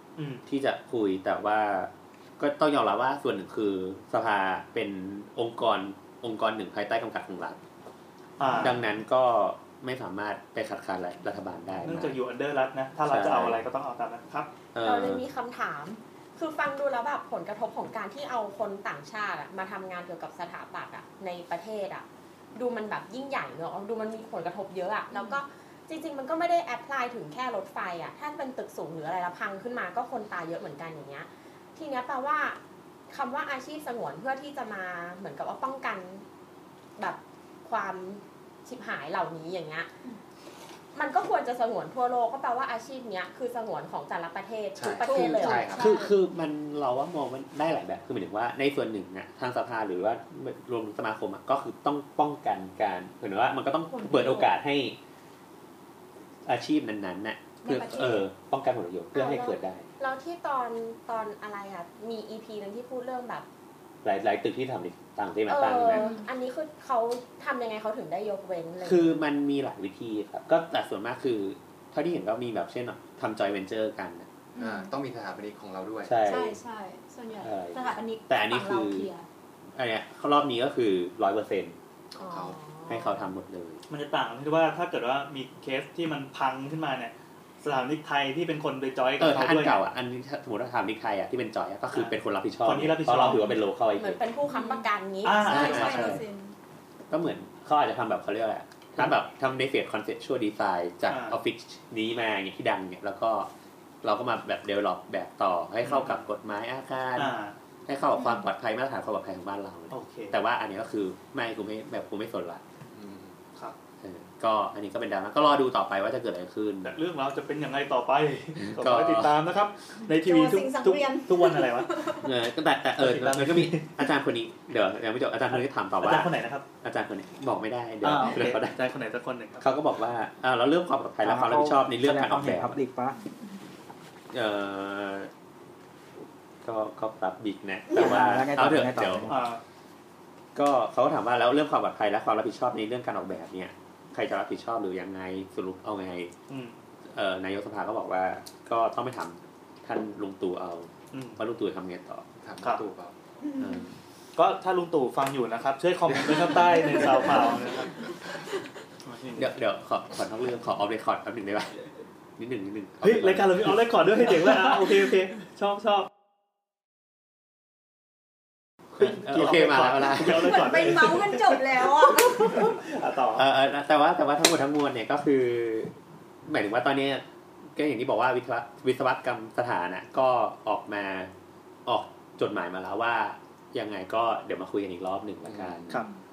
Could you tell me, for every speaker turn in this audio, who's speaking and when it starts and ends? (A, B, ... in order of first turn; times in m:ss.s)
0:00.2-0:00.4 A
0:00.5-0:07.6 B
0:08.4-0:08.8 A
0:08.6-0:12.2 B
0:11.8-0:14.5 A
0:13.1-0:13.6 B
0:14.7-0:15.2 B
0:14.8-0:36.2 C
0:25.1-0:25.4 D
0:37.0-0:39.9 C
0:40.9-0:45.8 C
0:44.8-0:45.9 E
0:45.0-0:46.2 D
0:45.7-0:55.0 B
0:53.9-0:54.5 D
0:56.5-0:59.9 B
0:57.6-0:58.3 D
0:59.1-1:03.5 C
1:04.0-1:06.1 B
1:05.5-1:09.2 C
1:05.9-1:06.3 D
1:08.8-1:14.3 B
1:14.6-1:14.9 D
1:14.6-1:16.2 E
1:16.0-1:16.6 B
1:16.2-1:19.2 D
1:17.4-1:19.1 B
1:19.8-1:21.8 B
1:22.1-1:22.6 E
1:22.3-1:23.1 C
1:22.9-1:23.8 B
1:23.9-1:29.8 A
1:29.2-1:34.2 B
1:31.9-1:33.5 A
1:33.3-1:33.6 D
1:34.0-1:36.0 C
1:34.5-1:34.9 D
1:35.2-1:36.2 A
1:35.4-1:36.6 D
1:35.5-1:36.2 B
1:37.1-1:43.5 B
1:41.1-1:41.4 A
1:44.0-1:47.4 B
1:45.8-1:46.2 A
1:47.2-1:47.6 A
1:47.9-1:52.6 B
1:48.1-1:48.5 D
1:49.9-1:50.4 A
1:52.9-1:53.4 E
1:54.0-1:57.0 B
1:56.8-2:02.1 A
1:58.6-1:59.4 B
2:00.1-2:02.3 D
2:02.2-2:06.3 B
2:03.0-2:04.0 A
2:05.5-2:06.7 A
2:06.8-2:08.8 B
2:08.0-2:09.7 A
2:09.6-2:12.8 B
2:11.2-2:13.2 F
2:14.3-2:15.3 B
2:16.6-2:19.3 B
2:17.9-2:19.4 F
2:19.3-2:19.6 A
2:20.6-2:26.3 B
2:26.5-2:26.8 A
2:27.1-2:32.3 B
2:31.1-2:31.4 A
2:32.4-2:33.1 E
2:33.4-2:33.9 D
2:33.6-2:33.9 B
2:34.4-2:38.0 A
2:36.6-2:37.5 D
2:39.0-2:39.5 A
2:39.4-2:41.8 B
2:42.4-2:44.6 B
2:43.0-2:46.1 A
2:49.0-2:50.7 B
2:49.0-2:53.5 A
2:50.4-2:52.8 D
2:53.4-2:55.9 B
2:56.5-3:01.3 B
3:01.9-3:06.0 B
3:05.5-3:06.0 E